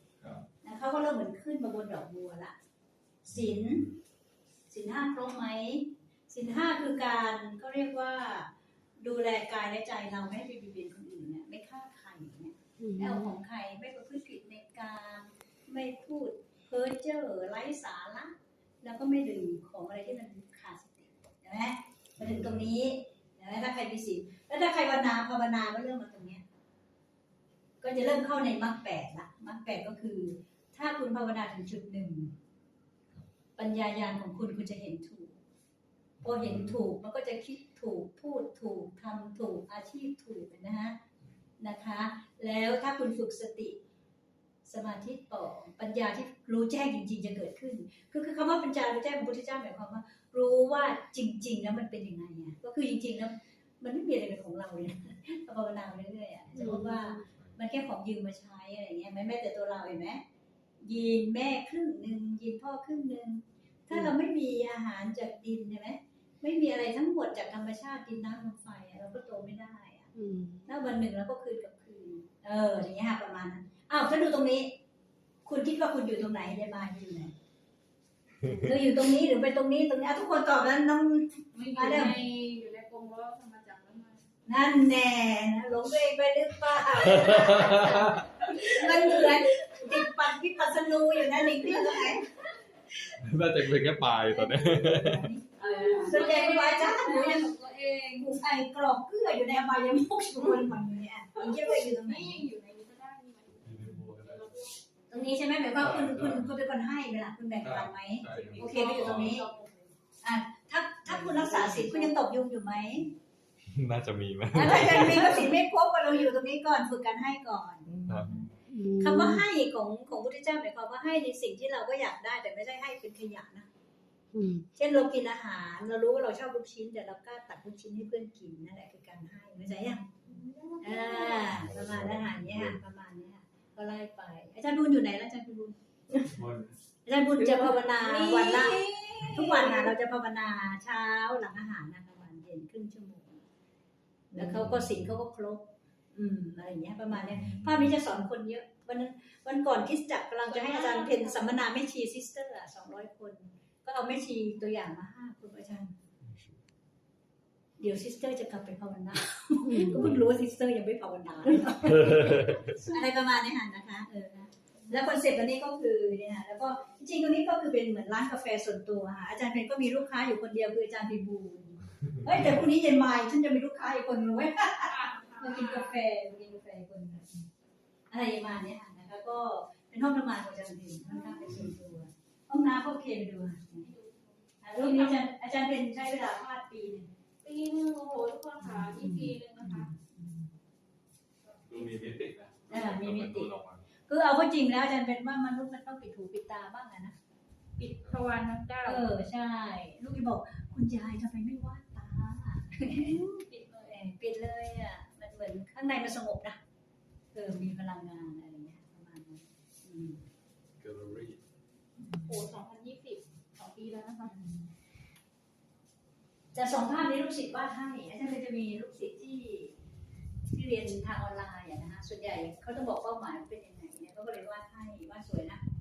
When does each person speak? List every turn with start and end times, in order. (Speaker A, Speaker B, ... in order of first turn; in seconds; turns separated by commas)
Speaker A: 0.6-2.5, Speaker A: 3.2-3.9, Speaker B: 3.4-3.8, Speaker A: 4.7-26.4, Speaker C: 12.8-13.3, Speaker A: 27.8-32.3, Speaker A: 33.6-35.4, Speaker B: 36.2-36.8, Speaker A: 36.2-41.0, Speaker A: 41.6-43.8, Speaker A: 44.7-60.2, Speaker C: 56.5-57.1, Speaker A: 60.8-70.1, Speaker C: 70.2-70.7, Speaker A: 70.7-74.8, Speaker A: 75.5-77.3, Speaker C: 78.4-78.7, Speaker A: 78.5-82.2, Speaker D: 81.5-84.2, Speaker A: 84.5-92.4, Speaker B: 87.1-88.2, Speaker D: 88.5-89.4, Speaker B: 93.1-95.3, Speaker A: 94.3-97.5, Speaker D: 95.6-98.3, Speaker A: 98.1-102.4, Speaker D: 101.3-104.8, Speaker B: 103.6-104.5, Speaker A: 105.1-109.5, Speaker B: 105.8-106.5, Speaker B: 107.6-109.4, Speaker D: 108.2-110.0, Speaker A: 110.2-113.2, Speaker D: 111.1-112.1, Speaker B: 113.7-115.5, Speaker A: 114.5-118.0, Speaker B: 118.0-118.5, Speaker C: 118.7-119.4, Speaker A: 119.0-123.7, Speaker C: 124.3-124.7, Speaker A: 124.8-130.1, Speaker D: 130.3-131.6, Speaker A: 130.8-136.3, Speaker B: 131.6-132.8, Speaker B: 136.3-136.8, Speaker A: 137.1-143.4, Speaker D: 137.8-139.9, Speaker A: 144.3-155.9, Speaker D: 150.4-151.5, Speaker A: 157.8-177.4, Speaker C: 159.7-160.1, Speaker B: 162.1-162.7, Speaker D: 174.9-176.0, Speaker A: 178.1-183.9, Speaker D: 181.1-181.5, Speaker D: 183.8-185.2, Speaker A: 184.6-187.1, Speaker D: 187.4-189.9, Speaker A: 188.6-190.5, Speaker B: 191.7-193.9, Speaker A: 192.7-193.5, Speaker A: 194.1-197.2, Speaker D: 197.8-199.1, Speaker B: 197.8-198.2, Speaker A: 198.8-206.6, Speaker D: 203.0-203.5, Speaker A: 207.3-210.2, Speaker B: 210.8-211.4, Speaker A: 212.0-212.3, Speaker D: 212.2-214.4, Speaker A: 214.3-214.7, Speaker A: 216.5-219.8, Speaker A: 220.5-225.6